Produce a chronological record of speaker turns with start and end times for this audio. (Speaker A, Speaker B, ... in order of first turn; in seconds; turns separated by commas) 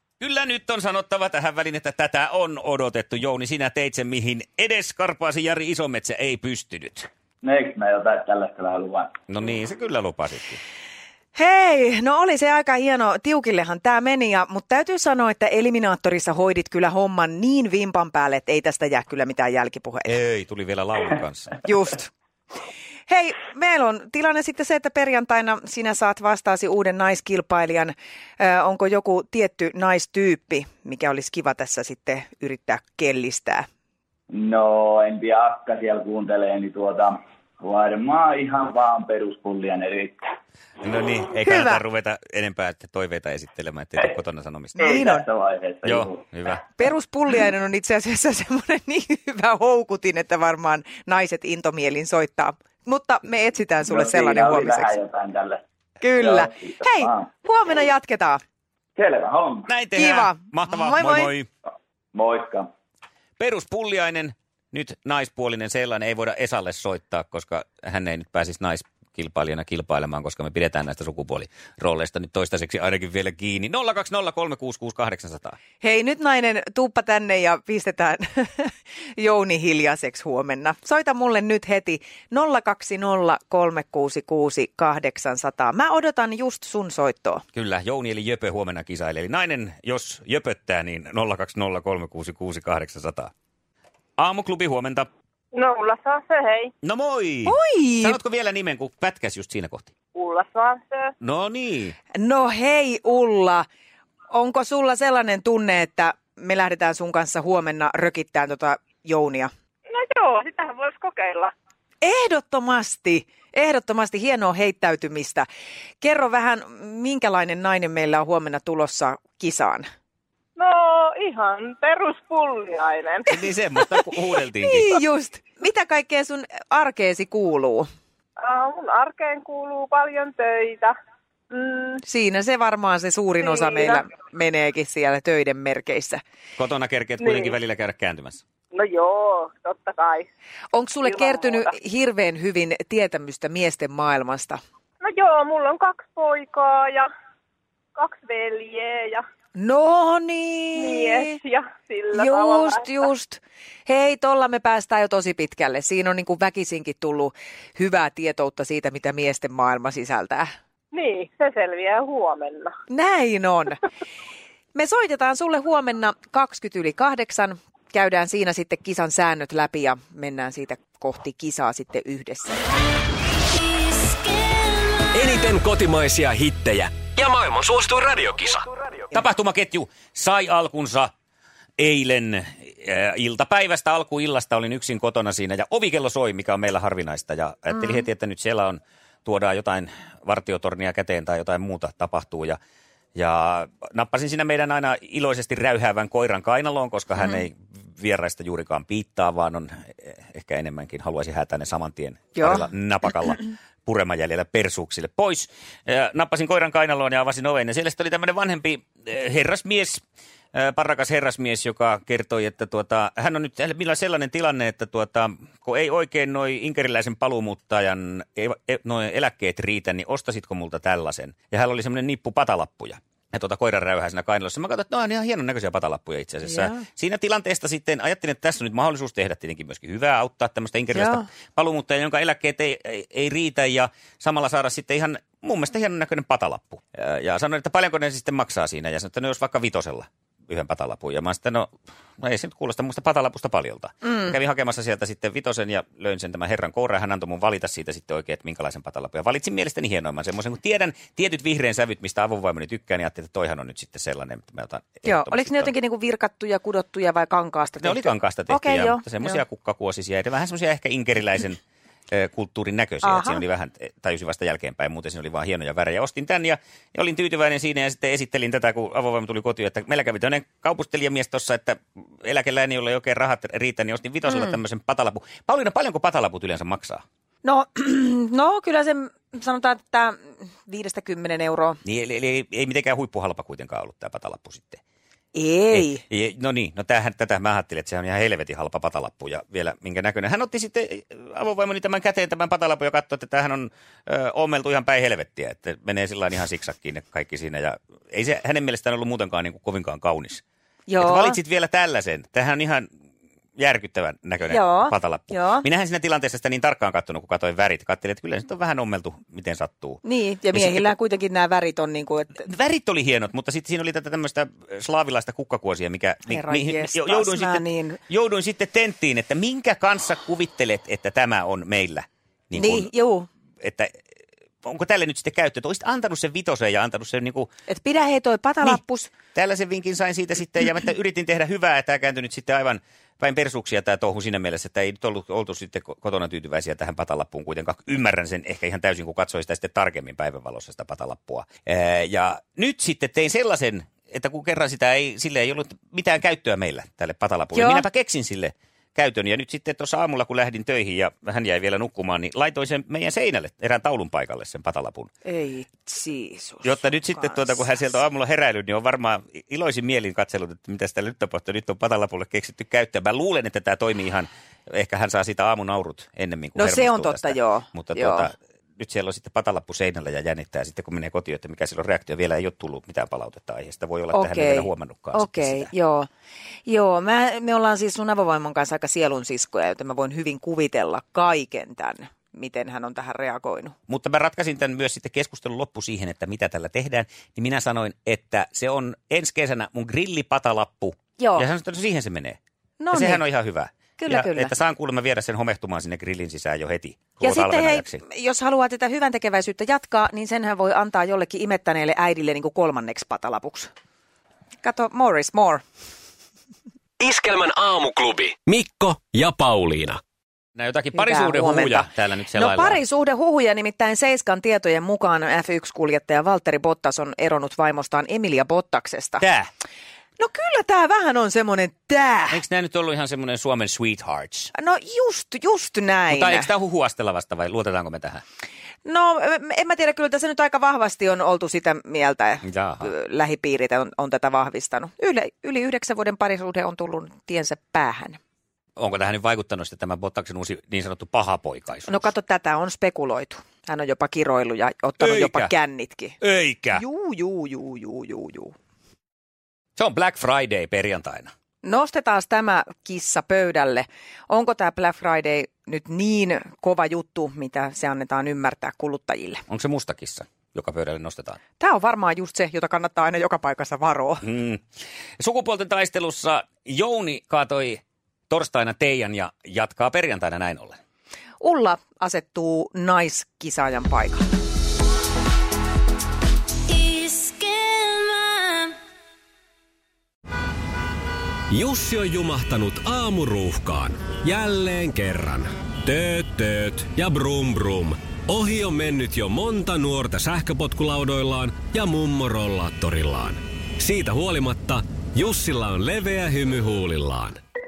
Speaker A: 0.2-7.1, Speaker B: 7.4-9.2, Speaker A: 9.3-10.6, Speaker C: 11.3-20.1, Speaker A: 20.1-21.6, Speaker C: 21.6-22.1, Speaker C: 23.1-33.7, Speaker B: 34.3-40.3, Speaker A: 40.8-45.0, Speaker C: 41.4-41.8, Speaker C: 44.8-45.2, Speaker B: 44.8-46.2, Speaker A: 45.8-46.6, Speaker C: 46.8-55.0, Speaker B: 53.8-55.6, Speaker C: 56.0-58.4, Speaker B: 56.2-57.2, Speaker B: 59.0-59.7, Speaker A: 59.7-61.5, Speaker C: 60.0-61.3, Speaker B: 62.1-62.7, Speaker A: 63.4-75.6, Speaker C: 75.8-87.4, Speaker A: 87.5-93.3, Speaker A: 94.2-95.1, Speaker D: 95.5-96.7, Speaker A: 96.8-99.9, Speaker C: 97.5-98.2, Speaker D: 100.1-101.1, Speaker A: 101.2-102.0, Speaker C: 102.1-103.7, Speaker C: 104.3-109.5, Speaker D: 109.9-111.5, Speaker C: 112.0-115.5, Speaker C: 116.0-119.8, Speaker D: 120.5-123.4, Speaker A: 123.2-125.0, Speaker C: 124.6-127.9, Speaker D: 128.4-130.9, Speaker D: 131.5-132.0, Speaker C: 132.0-136.2, Speaker D: 133.4-134.1, Speaker A: 136.6-138.4, Speaker D: 137.2-137.5, Speaker D: 138.7-140.2, Speaker C: 140.7-144.6, Speaker D: 141.0-141.7, Speaker D: 145.0-147.1, Speaker D: 147.9-149.2, Speaker C: 149.6-151.4, Speaker D: 150.7-153.0, Speaker C: 152.1-160.5, Speaker D: 160.9-162.7, Speaker C: 162.9-163.8, Speaker C: 164.7-172.6, Speaker E: 175.1-178.8, Speaker A: 179.1-181.1, Speaker A: 181.8-192.6, Speaker A: 193.1-255.7, Speaker C: 202.3-202.7, Speaker C: 226.4-226.8, Speaker C: 230.9-231.3, Speaker C: 255.0-259.4, Speaker A: 257.8-277.0, Speaker C: 263.0-263.4, Speaker C: 274.3-274.5, Speaker C: 277.4-281.8, Speaker A: 281.8-284.8, Speaker C: 285.3-286.0, Speaker A: 285.7-300.4, Speaker C: 300.9-301.4, Speaker A: 301.0-302.9, Speaker A: 303.6-310.0, Speaker C: 304.5-305.6, Speaker C: 310.0-312.4, Speaker A: 310.5-310.9, Speaker A: 312.3-322.9, Speaker C: 316.3-318.0, Speaker C: 322.5-323.3, Speaker A: 323.6-324.0, Speaker A: 324.6-327.5, Speaker C: 327.7-329.1, Speaker A: 329.3-355.1, Speaker C: 347.5-347.8, Speaker C: 355.2-357.6, Speaker A: 356.6-375.7, Speaker C: 366.6-368.3, Speaker C: 374.1-376.1, Speaker C: 376.7-383.8, Speaker A: 383.9-392.4, Speaker C: 391.2-391.5, Speaker C: 392.8-393.2, Speaker A: 392.9-398.0, Speaker C: 394.0-394.5, Speaker C: 397.2-403.7, Speaker C: 404.6-405.6, Speaker E: 407.0-410.0, Speaker A: 410.5-412.8, Speaker C: 410.9-419.2, Speaker A: 419.2-419.5, Speaker C: 420.2-422.4, Speaker A: 422.3-424.5, Speaker C: 424.5-426.5, Speaker A: 426.1-428.2, Speaker C: 428.8-438.2, Speaker A: 432.4-432.9, Speaker A: 438.8-442.1, Speaker C: 441.9-446.2, Speaker A: 445.0-445.5, Speaker A: 446.2-446.8, Speaker C: 446.7-448.5, Speaker A: 449.8-451.3, Speaker C: 451.6-459.4, Speaker A: 459.5-461.4, Speaker C: 461.6-464.2, Speaker A: 464.2-464.7, Speaker A: 465.2-470.8, Speaker C: 471.4-474.2, Speaker E: 476.7-478.7, Speaker E: 481.5-497.4